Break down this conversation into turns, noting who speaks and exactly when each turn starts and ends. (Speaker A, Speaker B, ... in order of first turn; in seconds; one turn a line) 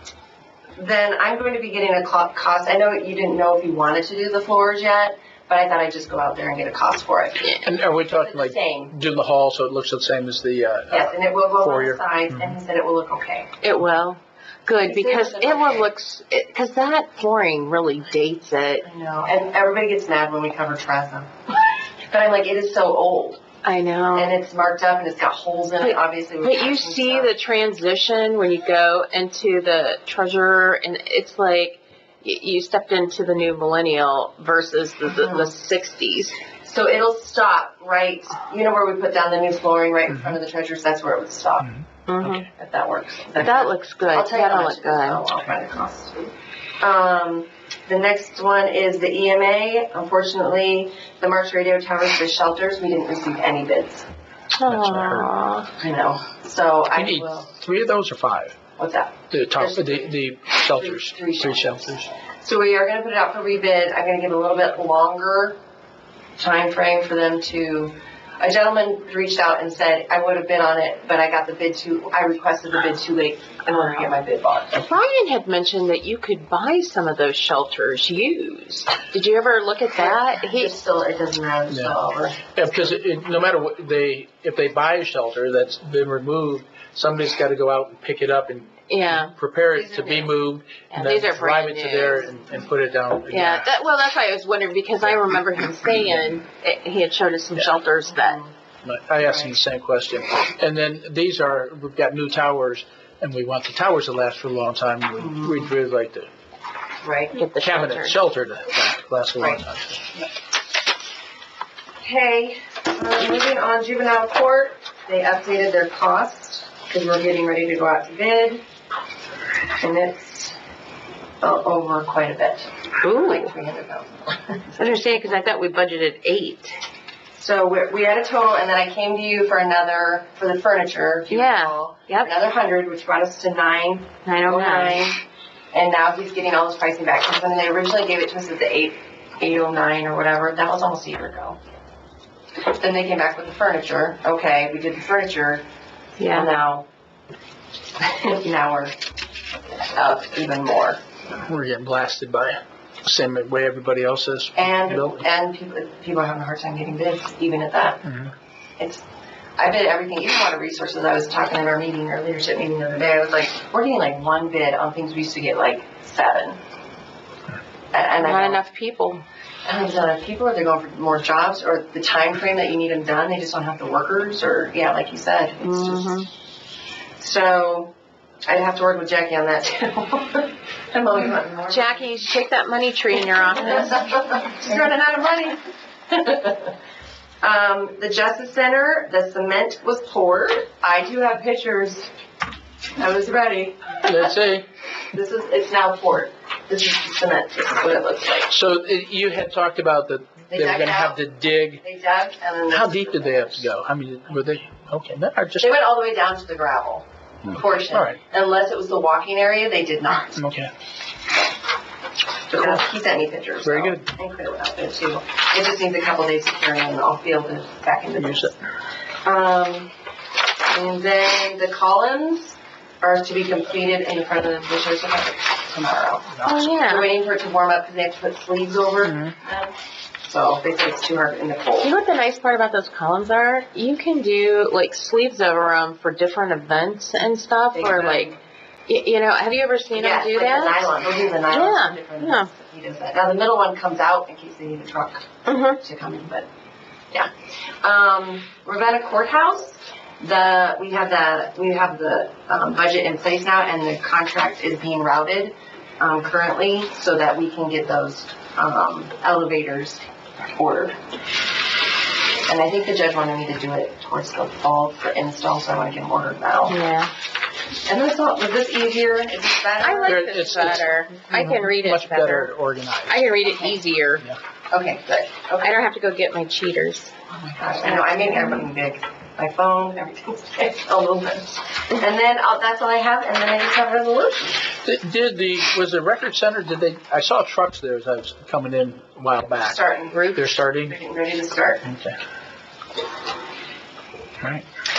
Speaker A: 0.8-8.9
Speaker B: 7.6-12.5
Speaker A: 10.9-13.5
Speaker C: 13.6-18.8
Speaker A: 14.8-15.9
Speaker A: 18.8-21.3
Speaker A: 22.1-23.4
Speaker C: 23.6-24.3
Speaker A: 24.1-27.3
Speaker C: 25.8-36.4
Speaker A: 35.0-35.5
Speaker A: 36.6-41.7
Speaker B: 40.1-40.4
Speaker B: 41.6-42.5
Speaker C: 42.1-42.5
Speaker A: 42.5-54.0
Speaker C: 43.4-45.2
Speaker C: 54.6-55.7
Speaker B: 54.7-55.3
Speaker A: 55.8-57.5
Speaker B: 56.9-58.5
Speaker A: 58.8-61.9
Speaker B: 59.3-62.1
Speaker A: 62.4-65.6
Speaker A: 66.4-74.8
Speaker C: 73.7-74.1
Speaker C: 74.7-80.7
Speaker A: 80.0-82.4
Speaker B: 81.7-81.9
Speaker B: 82.5-93.7
Speaker C: 88.9-89.3
Speaker A: 89.7-90.3
Speaker C: 90.9-92.3
Speaker C: 93.3-98.4
Speaker A: 98.1-98.5
Speaker B: 98.8-106.3
Speaker A: 99.2-99.5
Speaker A: 105.2-105.7
Speaker A: 107.0-107.4
Speaker C: 107.3-108.2
Speaker B: 107.5-110.0
Speaker A: 109.4-109.6
Speaker A: 112.0-118.6
Speaker A: 119.8-120.5
Speaker A: 121.4-125.2
Speaker C: 123.0-123.5
Speaker C: 124.8-126.8
Speaker A: 127.3-135.2
Speaker C: 131.3-132.3
Speaker C: 134.2-135.1
Speaker A: 135.7-141.6
Speaker A: 142.7-145.6
Speaker C: 146.2-146.5
Speaker A: 146.3-146.9
Speaker A: 148.0-148.9
Speaker A: 149.9-151.0
Speaker B: 151.4-155.2
Speaker A: 154.6-158.0
Speaker B: 158.0-158.3
Speaker A: 158.8-159.0
Speaker A: 159.6-166.6
Speaker A: 167.9-168.6
Speaker C: 168.2-169.2
Speaker A: 169.6-176.2
Speaker C: 175.6-176.3
Speaker A: 177.2-177.9
Speaker A: 178.4-182.1
Speaker C: 181.7-184.3
Speaker A: 183.7-186.7
Speaker A: 187.4-192.1
Speaker A: 193.0-194.3
Speaker B: 194.0-194.7
Speaker A: 195.1-198.5
Speaker B: 198.5-201.8
Speaker A: 200.5-201.2
Speaker A: 201.8-203.7
Speaker B: 202.7-205.7
Speaker A: 205.6-210.4
Speaker B: 207.9-208.2
Speaker B: 210.3-210.7
Speaker A: 212.5-218.5
Speaker B: 212.5-212.8
Speaker B: 213.6-214.1
Speaker B: 218.2-218.6
Speaker A: 219.2-219.9
Speaker A: 220.7-231.9
Speaker C: 226.4-227.1
Speaker B: 229.1-229.3
Speaker C: 231.8-238.3
Speaker A: 237.7-238.4
Speaker C: 238.9-240.9
Speaker A: 239.9-246.5
Speaker C: 241.5-242.5
Speaker C: 245.4-245.8
Speaker A: 247.8-260.0
Speaker A: 260.5-261.0
Speaker A: 262.4-266.8
Speaker C: 266.7-267.1
Speaker A: 267.9-270.2
Speaker C: 269.8-272.5
Speaker B: 270.1-273.4
Speaker C: 273.1-274.2
Speaker A: 273.4-273.8
Speaker A: 274.7-275.8
Speaker C: 275.6-277.1
Speaker A: 277.3-284.7
Speaker C: 277.8-278.7
Speaker B: 284.8-290.9
Speaker A: 289.6-291.8
Speaker C: 290.1-290.5
Speaker B: 291.8-292.2